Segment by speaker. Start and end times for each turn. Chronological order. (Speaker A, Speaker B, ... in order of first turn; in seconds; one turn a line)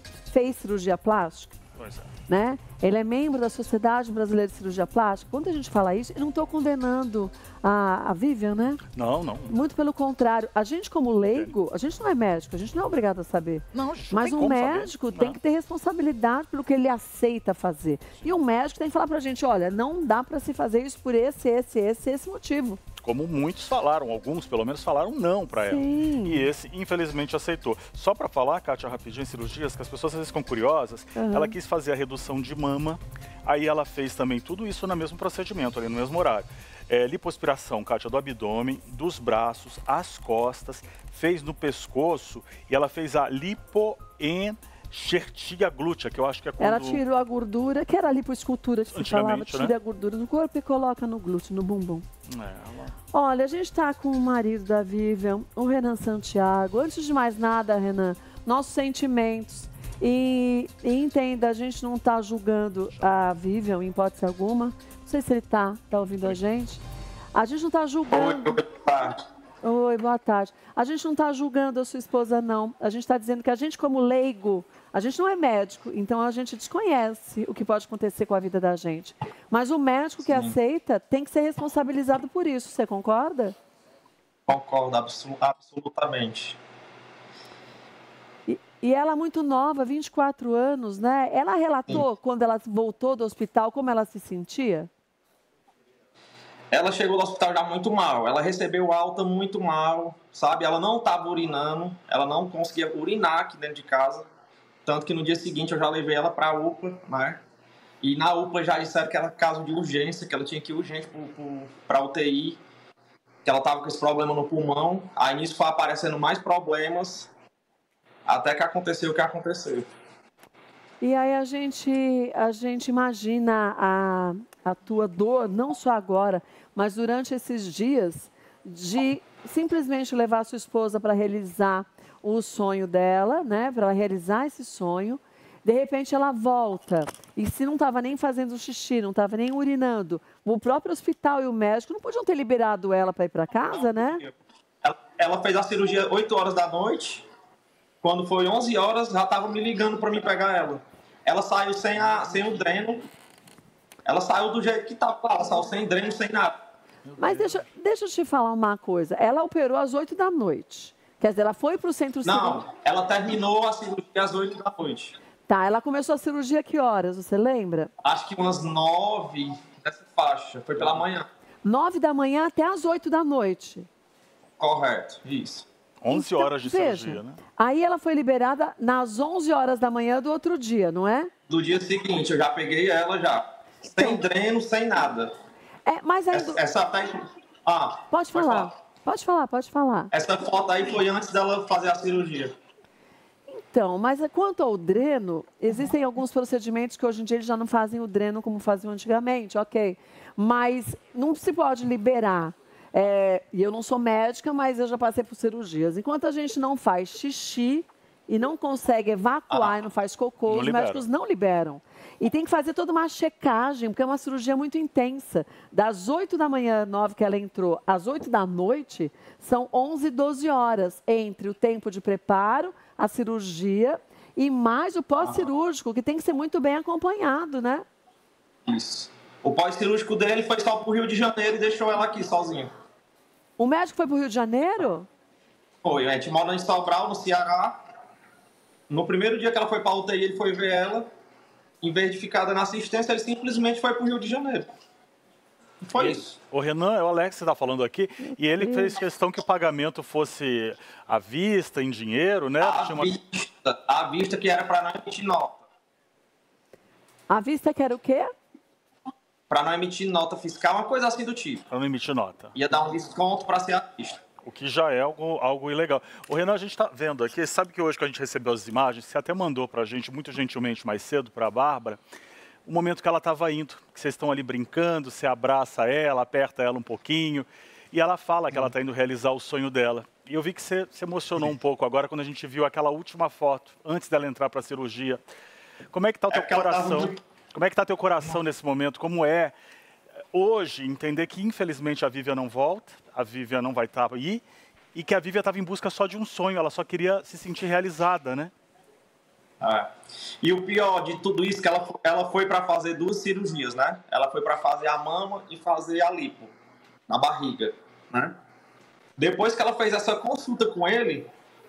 Speaker A: 0.3-1.6
Speaker B: 1.8-2.1
Speaker A: 2.3-8.8
Speaker B: 8.9-9.6
Speaker A: 9.5-22.8
Speaker B: 13.7-15.4
Speaker B: 23.0-47.0
Speaker A: 25.6-26.5
Speaker A: 31.1-31.5
Speaker A: 46.6-52.0
Speaker B: 48.9-49.8
Speaker B: 52.3-52.9
Speaker A: 53.1-66.8
Speaker A: 67.3-68.6
Speaker C: 68.1-69.2
Speaker A: 69.6-83.5
Speaker C: 80.3-80.5
Speaker C: 84.5-86.6
Speaker A: 88.5-94.9
Speaker C: 96.7-104.3
Speaker C: 104.8-107.4
Speaker C: 108.0-112.6
Speaker C: 113.4-117.3
Speaker C: 118.3-119.9
Speaker A: 121.0-144.2
Speaker C: 143.6-144.3
Speaker C: 144.8-147.2
Speaker C: 148.0-153.1
Speaker C: 154.0-156.5
Speaker B: 157.1-157.6
Speaker A: 157.2-162.7
Speaker C: 162.2-165.1
Speaker A: 165.5-167.9
Speaker C: 168.0-171.3
Speaker A: 171.6-173.9
Speaker C: 174.6-175.7
Speaker B: 176.0-177.4
Speaker A: 176.1-181.3
Speaker C: 181.5-185.3
Speaker A: 183.9-184.2
Speaker A: 185.8-186.6
Speaker C: 186.3-188.7
Speaker A: 188.1-190.1
Speaker C: 190.1-192.5
Speaker A: 193.5-227.8
Speaker B: 210.5-211.0
Speaker C: 228.7-232.7
Speaker A: 233.6-235.1
Speaker C: 235.8-237.8
Speaker C: 238.9-241.1
Speaker C: 241.8-244.7
Speaker C: 245.8-246.4
Speaker B: 245.9-253.1
Speaker A: 248.6-248.9
Speaker C: 252.6-255.6
Speaker A: 257.3-258.3
Speaker C: 259.5-261.6
Speaker B: 261.7-262.5
Speaker C: 262.5-264.2
Speaker B: 264.4-272.0
Speaker B: 272.6-285.2
Speaker B: 285.9-289.5
Speaker C: 286.3-287.1
Speaker B: 290.3-294.4
Speaker B: 294.9-298.5
Speaker C: 299.6-299.9
Speaker C: 300.4-306.5
Speaker C: 307.1-308.4
Speaker C: 309.2-311.3